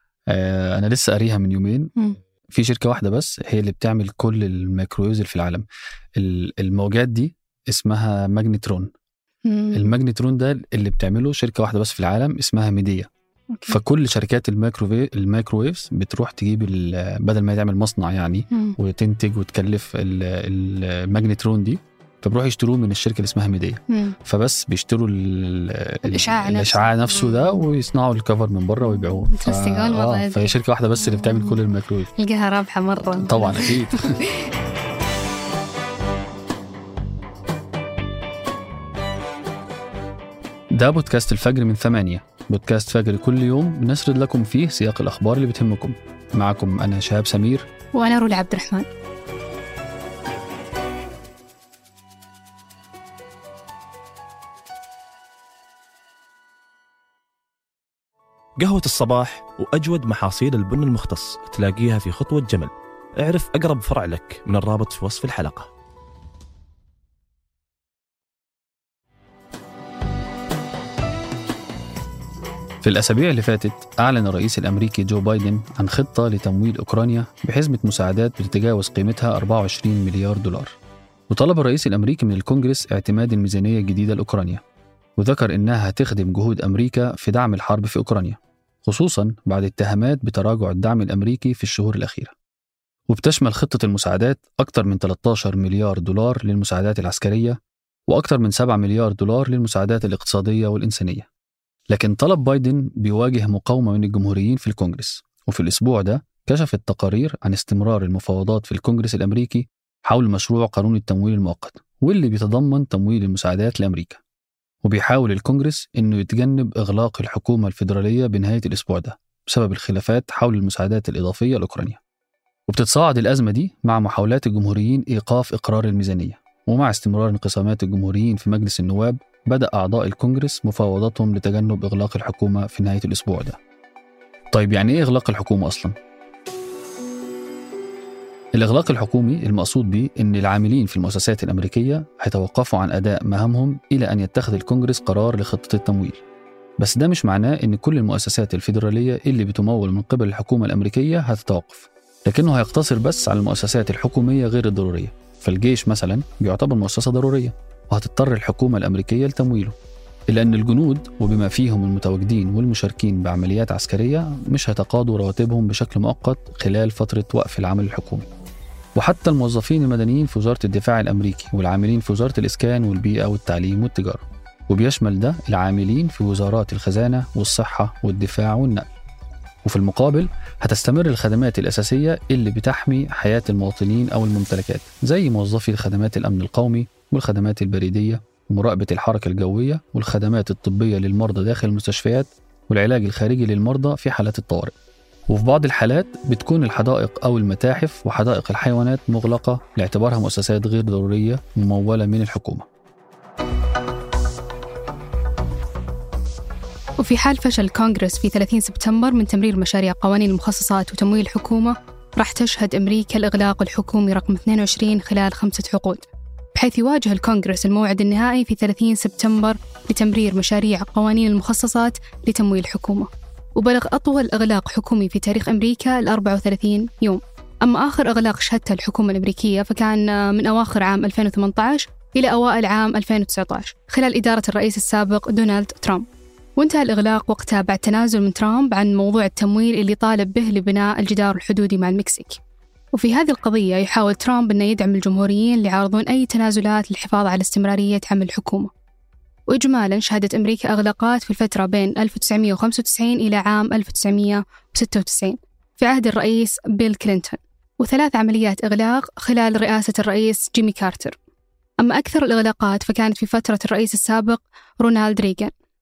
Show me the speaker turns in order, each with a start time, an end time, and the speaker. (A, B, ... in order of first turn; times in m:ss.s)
0:00.3-0:02.0 A
0:02.5-0:05.7 A
0:06.2-0:08.9 A
0:09.4-0:09.9 B
0:09.7-0:13.1 A
0:13.5-0:13.8 B
0:13.7-0:32.1 A
0:23.9-0:24.2 B
0:26.1-0:27.4 B
0:29.2-0:31.6 B
0:32.1-0:34.5 B
0:33.2-0:34.2 A
0:40.8-0:47.7 A
0:48.0-0:48.9 B
0:58.6-1:05.7 C
1:12.8-1:20.8 A
1:21.3-1:24.6 A
1:25.2-1:32.3 A
1:33.1-1:37.6 A
1:38.1-1:41.3 A
1:41.9-1:54.2 A
1:54.8-2:02.0 A
2:02.7-2:13.6 A
2:14.5-2:16.0 A
2:18.6-2:26.2 A
2:26.8-2:39.8 A
2:40.3-2:48.3 A
2:49.0-2:58.9 A
2:59.6-3:14.7 A
3:15.3-3:22.7 A
3:27.0-4:02.4 B
4:02.9-4:08.7 B
4:09.5-4:21.2 B
4:21.8-4:25.5 B